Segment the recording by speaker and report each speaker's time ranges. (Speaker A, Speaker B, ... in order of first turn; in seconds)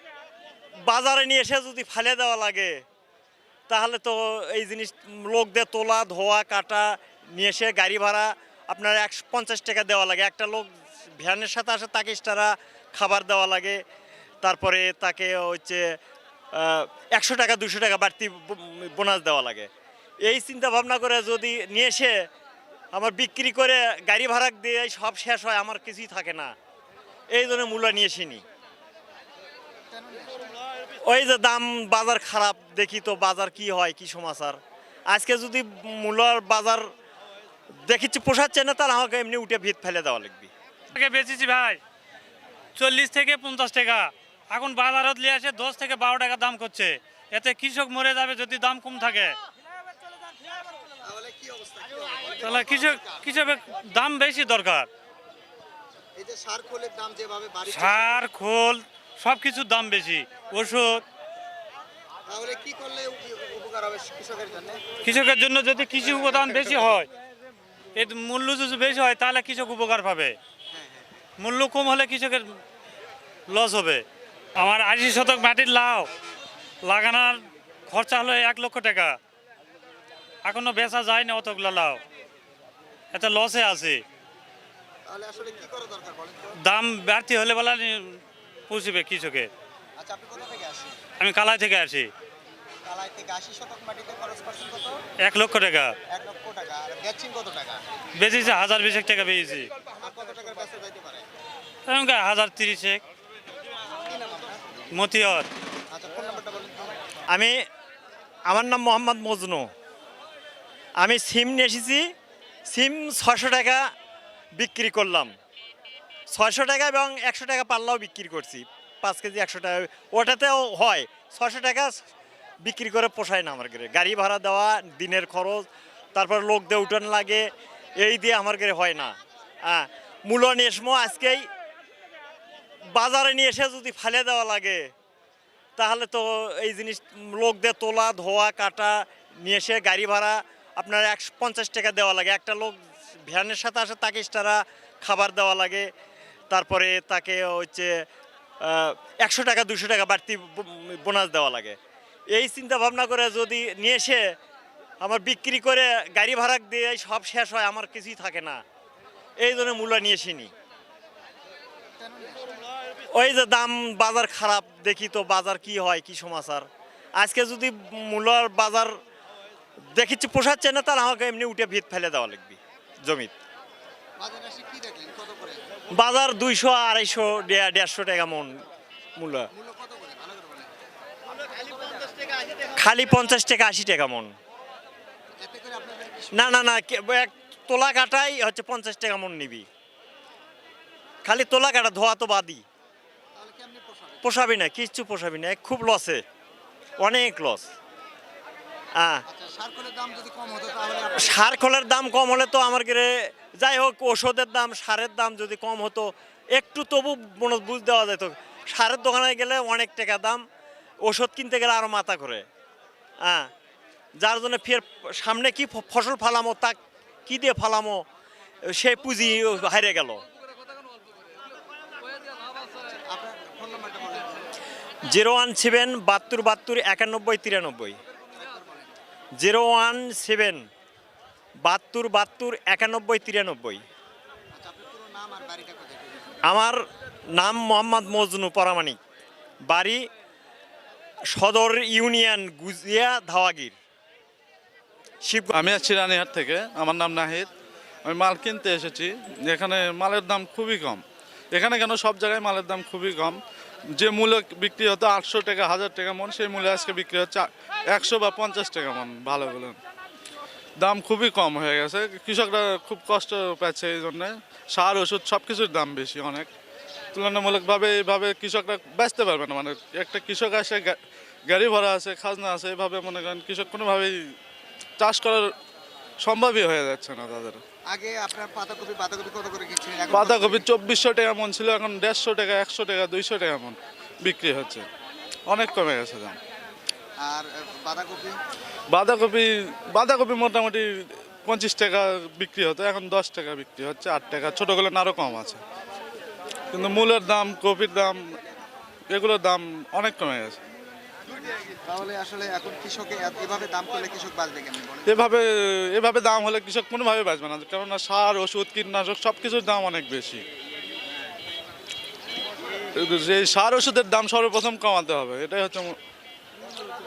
Speaker A: 0.9-2.8, 3.7-13.8, 14.4-15.8, 16.5-19.7, 20.2-22.1, 22.9-26.5, 27.3-28.4, 31.1-34.6, 35.1-36.9, 37.9-40.5, 107.3-107.6, 108.5-109.7, 111.0-112.0, 112.7-113.8, 114.6-115.3, 116.3-121.9, 122.6-131.5, 132.9-134.9, 135.8-145.9, 146.5-147.9, 148.6-151.8, 152.3-154.2, 155.0-158.6, 159.4-160.5, 163.1-166.7, 167.2-168.9, 169.9-173.3, 175.9-178.5, 179.2-179.5, 182.8-184.3, 186.3-189.7, 191.2-192.6, 194.2-196.2, 197.0-197.7, 199.0-199.2, 201.2-210.4, 211.0-212.4, 213.2-213.5, 214.2-218.0, 218.7-220.2, 225.0-228.0, 229.3-230.6, 231.6-233.8, 236.4-236.8, 237.3-239.0, 239.7-240.0, 241.3-243.8, 245.2-245.6
Speaker B: 29.9-30.6, 51.0-53.3, 56.1-58.2, 62.3-64.8, 70.7-71.1, 85.0-86.6, 90.0-91.0, 92.8-95.0, 96.1-97.8, 99.8-101.3, 103.9-104.9, 105.9-107.0, 161.9-162.6, 174.2-175.6, 179.5-180.7, 181.7-182.0, 185.4-186.6, 193.3-194.3, 199.3-201.4, 222.8-224.5, 228.3-228.9, 234.5-236.3, 277.9-280.7, 287.2-288.4, 301.8-305.1
Speaker C: 40.9-41.8, 42.8-49.4, 52.4-54.9, 57.7-61.0, 65.0-67.1, 67.9-70.3, 71.4-72.5, 73.5-74.0, 74.5-76.1, 76.8-79.2, 80.4-82.0, 83.1-84.0, 86.6-89.5, 91.2-92.1, 95.2-95.9, 98.2-99.7, 101.8-103.0, 104.9-105.5
Speaker D: 245.5-247.5, 248.0-253.4, 253.9-259.8, 260.8-266.5, 267.1-274.3, 275.0-275.5, 276.2-277.6, 280.1-284.9, 285.5-286.4, 288.9-295.6, 296.7-298.2, 299.1-300.6, 305.1-310.4, 313.0-315.9